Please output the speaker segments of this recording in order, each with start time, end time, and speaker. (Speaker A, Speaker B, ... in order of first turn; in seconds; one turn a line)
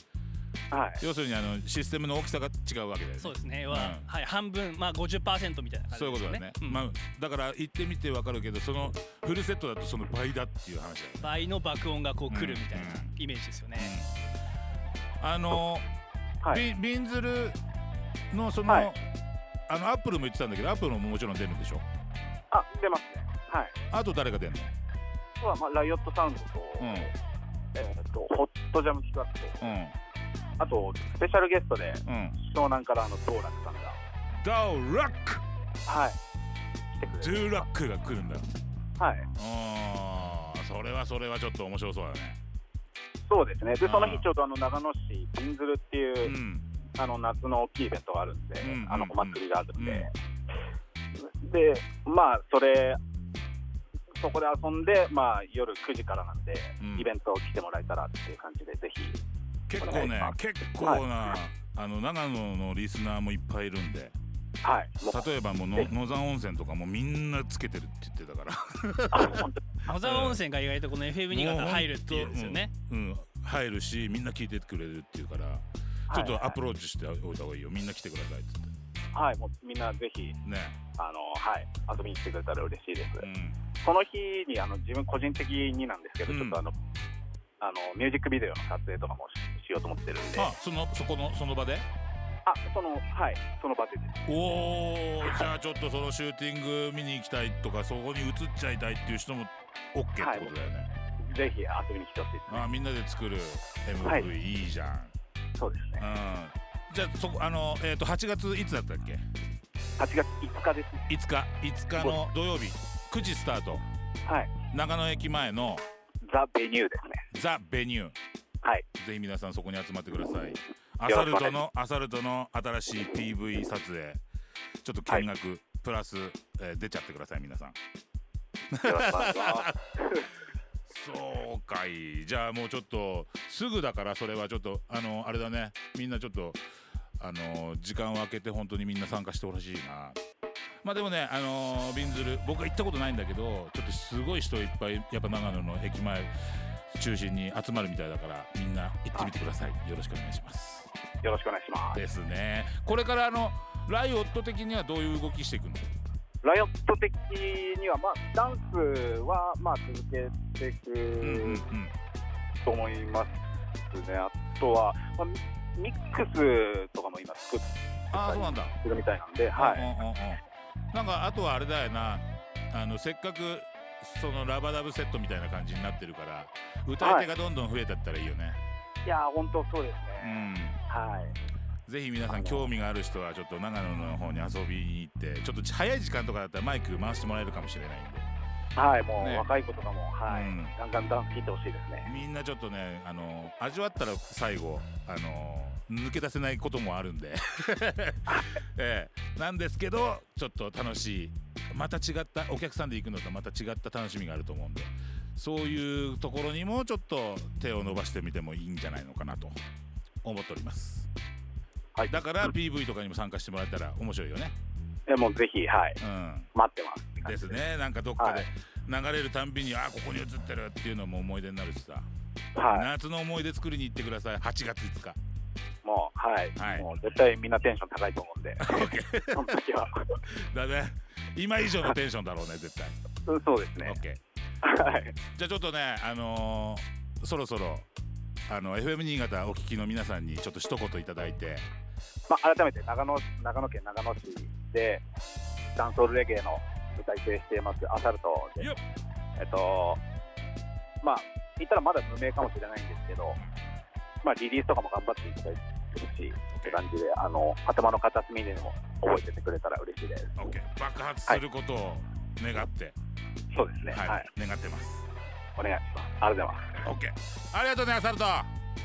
Speaker A: 0.7-1.0
Speaker B: 1.0-4.1
Speaker C: 3.2-6.8
Speaker B: 5.9-11.4
Speaker C: 11.2-13.9
Speaker B: 12.3-13.1
Speaker B: 13.7-14.1
Speaker B: 15.2-15.8
Speaker B: 16.5-17.6
Speaker B: 18.3-19.0
Speaker A: 18.7-18.9
Speaker B: 19.7-21.8
Speaker A: 22.5-23.7
Speaker B: 23.9-24.7
Speaker A: 25.4-27.1
Speaker B: 26.8-27.1
Speaker A: 27.7-29.7
Speaker B: 29.6-29.9
Speaker A: 30.6-34.0
Speaker B: 32.0-32.4
Speaker B: 34.4-35.4
Speaker A: 35.9-36.2
Speaker A: 36.9-37.7
Speaker B: 37.2-38.5
Speaker A: 39.0-39.3
Speaker B: 39.3-42.4
Speaker A: 43.3-46.3
Speaker B: 43.8-44.3
Speaker B: 46.2-46.7
Speaker A: 47.0-50.1
Speaker B: 48.6-50.1
Speaker A: 51.1-53.0
Speaker A: 54.2-59.2
Speaker B: 56.8-57.1
Speaker B: 59.7-64.1
Speaker A: 59.8-61.0
Speaker A: 64.6-65.9
Speaker B: 65.1-70.4
Speaker A: 69.1-69.6
Speaker C: 69.8-72.7
Speaker B: 71.3-78.7
Speaker A: 76.1-76.6
Speaker A: 79.1-80.3
Speaker B: 80.4-80.8
Speaker A: 81.0-83.2
Speaker B: 83.2-83.6
Speaker A: 83.8-86.7
Speaker B: 86.2-86.6
Speaker A: 87.6-90.5
Speaker B: 90.3-91.9
Speaker A: 92.5-94.3
Speaker B: 94.3-100.9
Speaker A: 100.2-100.5
Speaker A: 101.2-102.7
Speaker B: 102.5-105.1
Speaker A: 104.0-104.3
Speaker A: 105.6-106.0
Speaker B: 106.0-109.2
Speaker A: 110.0-111.1
Speaker B: 111.1-113.8
Speaker A: 114.2-114.5
Speaker B: 114.7-115.8
Speaker A: 116.2-117.2
Speaker B: 117.3-118.2
Speaker B: 119.0-124.2
Speaker A: 121.0-121.6
Speaker B: 124.8-127.8
Speaker B: 128.7-129.7
Speaker A: 128.8-130.3
Speaker B: 130.8-136.6
Speaker B: 137.2-140.2
Speaker B: 140.8-146.3
Speaker B: 146.9-150.9
Speaker A: 151.2-152.0
Speaker B: 151.9-155.9
Speaker A: 156.4-161.6
Speaker B: 161.2-161.9
Speaker A: 162.6-163.3
Speaker A: 163.9-169.9
Speaker B: 168.1-168.7
Speaker B: 169.6-170.4
Speaker B: 170.9-178.6
Speaker A: 177.0-177.3
Speaker A: 179.0-181.3
Speaker B: 180.2-180.8
Speaker B: 181.9-188.3
Speaker A: 182.3-182.7
Speaker A: 188.7-192.1
Speaker B: 189.2-189.5
Speaker B: 190.3-190.8
Speaker B: 192.0-209.5
Speaker B: 210.2-211.1
Speaker B: 212.1-214.5
Speaker A: 215.1-216.0
Speaker B: 216.0-216.5
Speaker A: 216.5-217.6
Speaker B: 217.2-222.1
Speaker A: 218.2-218.4
Speaker A: 222.5-222.9
Speaker B: 222.7-225.2
Speaker A: 225.8-230.2
Speaker B: 226.6-226.9
Speaker B: 228.6-229.6
Speaker B: 230.2-233.0
Speaker A: 233.2-234.0
Speaker B: 233.8-234.2
Speaker A: 234.6-235.2
Speaker B: 235.3-237.9
Speaker B: 238.5-241.7
Speaker A: 242.3-245.0
Speaker A: 245.8-248.7
Speaker A: 249.4-250.0
Speaker A: 251.0-253.4
Speaker A: 254.2-260.3
Speaker B: 256.5-256.8
Speaker B: 260.4-262.9
Speaker A: 263.5-264.3
Speaker B: 263.9-265.1
Speaker A: 265.6-266.8
Speaker B: 266.8-268.5